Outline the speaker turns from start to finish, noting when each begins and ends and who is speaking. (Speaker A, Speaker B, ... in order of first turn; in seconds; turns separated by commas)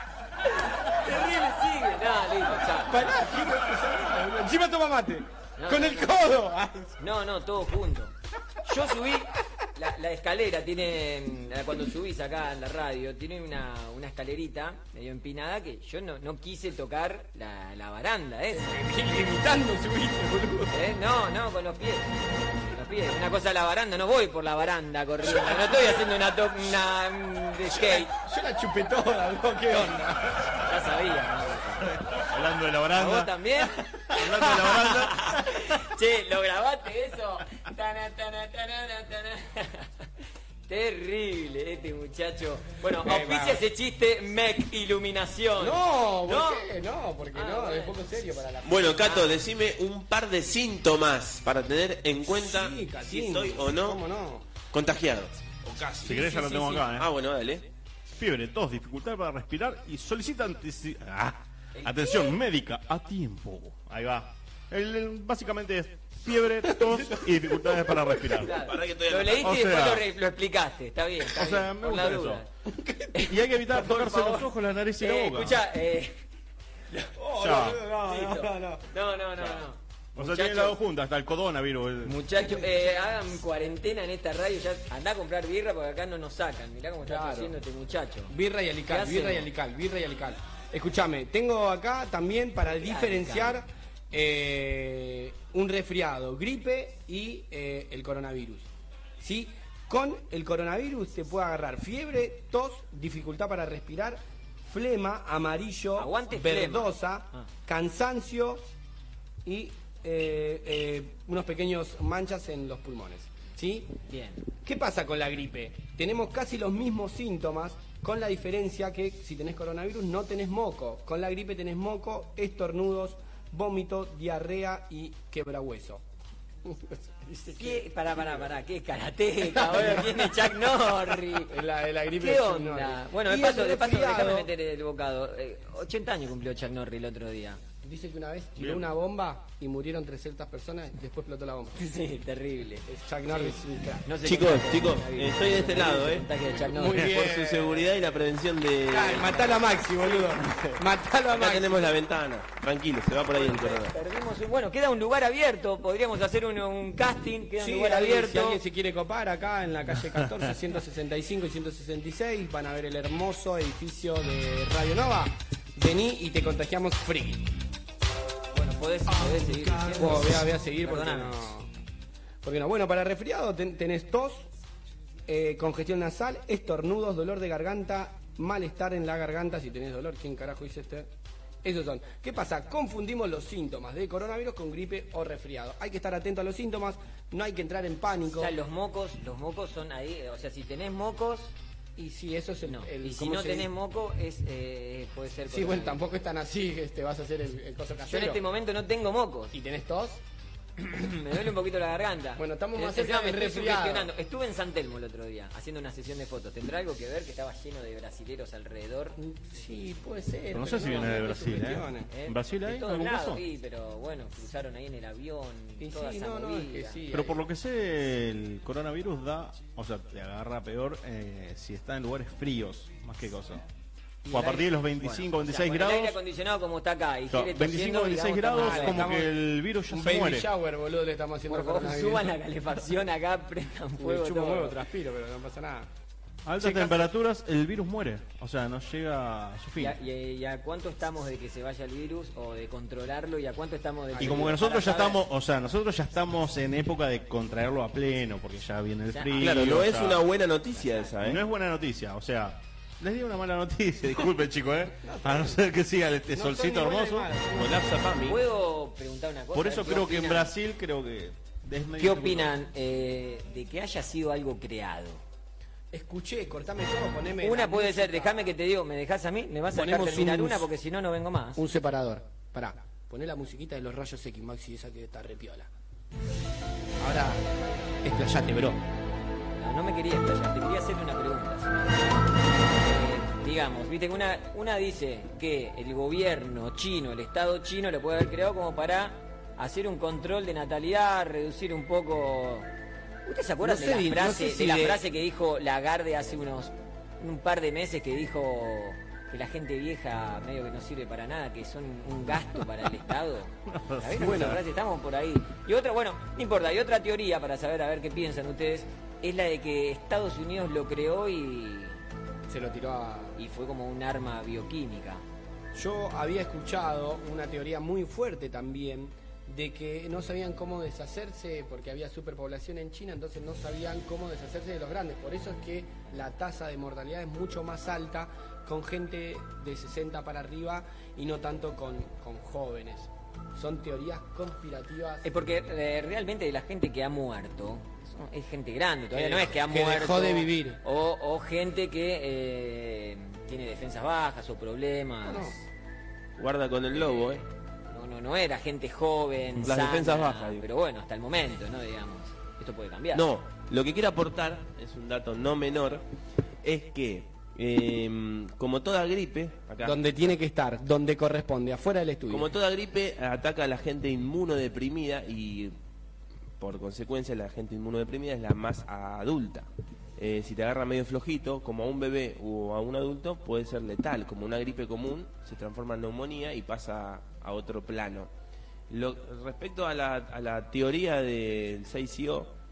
Speaker A: 0.5-3.2, Speaker B: 2.8-7.0, Speaker A: 5.6-6.1, Speaker A: 7.0-18.8, Speaker B: 18.5-20.8, Speaker A: 20.7-28.1, Speaker B: 25.2-26.1, Speaker B: 27.6-30.6, Speaker A: 30.6-32.2, Speaker C: 32.0-35.8, Speaker A: 32.9-39.9, Speaker A: 40.7-46.7, Speaker B: 43.0-43.6, Speaker B: 45.6-49.3, Speaker A: 47.3-48.0, Speaker D: 48.6-54.0, Speaker A: 49.0-49.3, Speaker B: 52.2-54.5, Speaker D: 54.7-56.3, Speaker C: 56.0-57.1, Speaker A: 56.1-56.8, Speaker D: 56.9-57.7, Speaker C: 58.1-68.6, Speaker A: 61.7-62.4, Speaker B: 66.9-68.1, Speaker A: 68.4-72.5, Speaker D: 68.5-69.5, Speaker C: 69.3-70.0, Speaker C: 71.3-72.4, Speaker B: 72.7-73.1, Speaker A: 73.1-76.2, Speaker C: 73.2-75.6, Speaker B: 77.2-78.8, Speaker C: 77.4-77.8, Speaker A: 78.0-80.8, Speaker C: 80.1-82.2, Speaker A: 82.0-88.3, Speaker B: 82.4-82.7, Speaker B: 87.0-87.5, Speaker B: 88.3-98.7, Speaker A: 88.9-89.5, Speaker A: 92.7-93.6, Speaker B: 99.2-108.6, Speaker A: 106.0-107.5, Speaker B: 109.4-113.9, Speaker A: 114.1-114.4, Speaker B: 114.6-126.0, Speaker B: 126.6-128.5, Speaker A: 127.5-131.5, Speaker B: 129.4-130.6, Speaker B: 131.3-134.5, Speaker A: 132.2-137.6, Speaker B: 137.8-141.8, Speaker C: 138.6-138.9, Speaker A: 141.8-147.1, Speaker B: 142.9-144.1, Speaker D: 144.2-146.3, Speaker B: 146.4-147.9, Speaker D: 146.8-149.6, Speaker B: 148.9-152.0, Speaker A: 149.2-150.3, Speaker D: 151.3-153.9, Speaker A: 153.3-158.6, Speaker B: 157.6-167.5, Speaker A: 168.5-171.5, Speaker B: 169.9-171.7, Speaker B: 172.4-174.5, Speaker B: 175.3-181.1, Speaker B: 181.6-188.5, Speaker A: 188.4-191.5, Speaker B: 191.9-193.7, Speaker A: 192.6-196.0, Speaker B: 195.5-198.4, Speaker A: 198.1-199.5, Speaker B: 199.5-200.2, Speaker A: 200.8-209.2, Speaker B: 202.4-204.1, Speaker B: 209.2-212.1, Speaker C: 210.5-213.4, Speaker A: 212.1-217.0, Speaker B: 215.8-217.4, Speaker C: 217.1-223.6, Speaker A: 224.2-229.1, Speaker C: 224.2-226.2, Speaker C: 227.3-230.5, Speaker B: 228.6-232.3, Speaker A: 231.5-234.8, Speaker B: 234.0-235.9, Speaker C: 236.4-240.0, Speaker B: 236.6-237.1, Speaker A: 239.8-245.2, Speaker B: 244.2-244.5, Speaker C: 244.2-250.2, Speaker A: 249.1-249.7, Speaker D: 249.4-251.4, Speaker A: 250.8-251.1, Speaker C: 251.2-257.3, Speaker B: 255.0-255.6, Speaker B: 256.3-257.9, Speaker D: 257.6-258.4, Speaker A: 258.2-260.5, Speaker C: 259.5-262.5, Speaker A: 262.0-265.2, Speaker B: 265.9-268.5, Speaker A: 267.4-271.6, Speaker B: 269.7-270.7, Speaker B: 271.6-275.7, Speaker B: 277.0-277.4, Speaker B: 278.0-278.8, Speaker A: 279.6-292.7, Speaker A: 293.2-312.0, Speaker B: 293.6-295.0, Speaker C: 303.6-304.6, Speaker B: 304.2-304.6, Speaker B: 312.5-313.4, Speaker A: 313.4-315.2, Speaker B: 315.7-335.2, Speaker A: 335.2-345.6, Speaker B: 339.1-340.8, Speaker B: 345.2-345.6, Speaker D: 346.4-347.4, Speaker A: 347.9-353.2, Speaker D: 349.6-350.6, Speaker D: 353.1-356.0, Speaker D: 356.6-360.0, Speaker B: 359.8-362.5, Speaker D: 362.3-365.8, Speaker D: 366.6-378.3, Speaker D: 378.9-382.5